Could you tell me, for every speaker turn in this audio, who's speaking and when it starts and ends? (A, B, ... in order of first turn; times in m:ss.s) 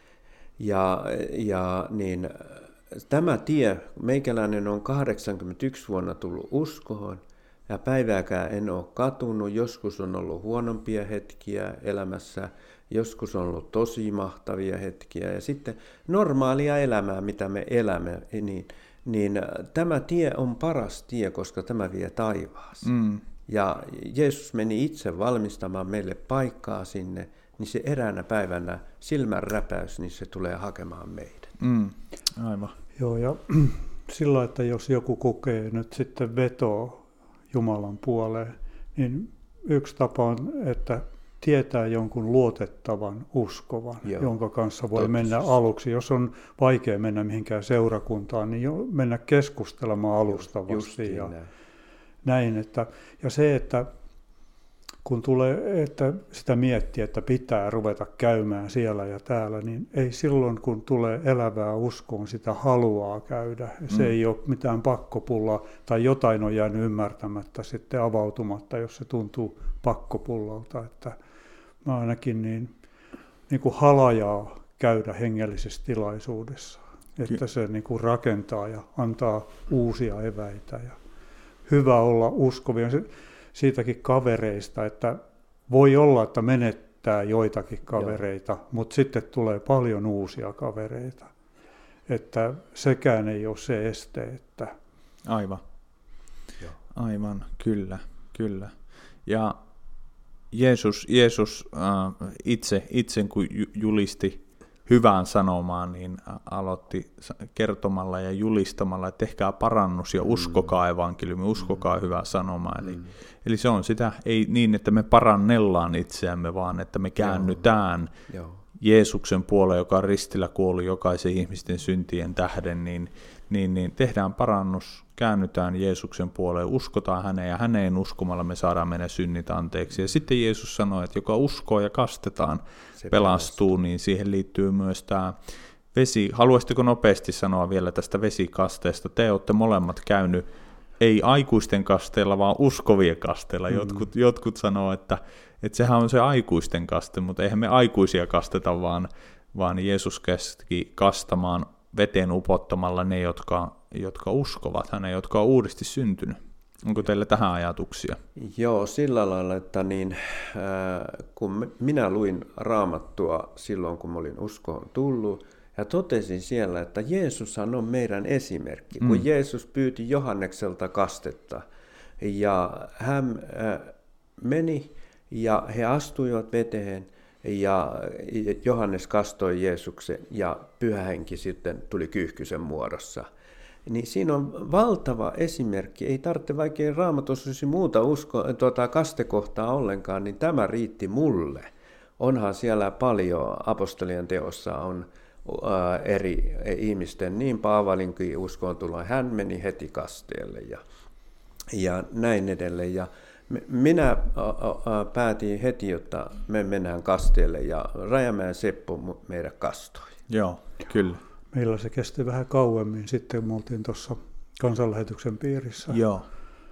0:00.6-0:22.9 A
0:22.8-0:23.2 B
0:23.5-0:31.5 A
0:31.6-0:32.7 B
0:33.0-0:51.3 C
0:44.0-0:44.3 A
0:45.0-0:45.5 A
0:50.3-0:51.5 A
0:52.2-0:53.9 C
0:55.0-1:11.2 C
1:11.8-1:12.7 C
1:13.5-1:21.0 C
1:21.7-1:31.3 C
1:32.1-1:34.7 C
1:35.2-1:35.6 B
1:36.9-1:38.7 B
1:39.2-1:39.6 B
1:40.5-1:58.1 B
1:50.3-1:50.6 A
1:57.2-1:57.6 A
1:58.3-1:58.6 A
1:58.8-2:15.4 B
2:13.0-2:13.7 A
2:15.9-2:20.4 B
2:21.0-2:38.2 B
2:38.4-2:51.6 A
2:52.2-3:03.3 A
3:03.8-3:11.7 A
3:12.2-3:20.8 A
3:21.7-3:30.2 A
3:30.3-3:31.2 B
3:31.5-3:36.0 C
3:35.9-3:36.3 B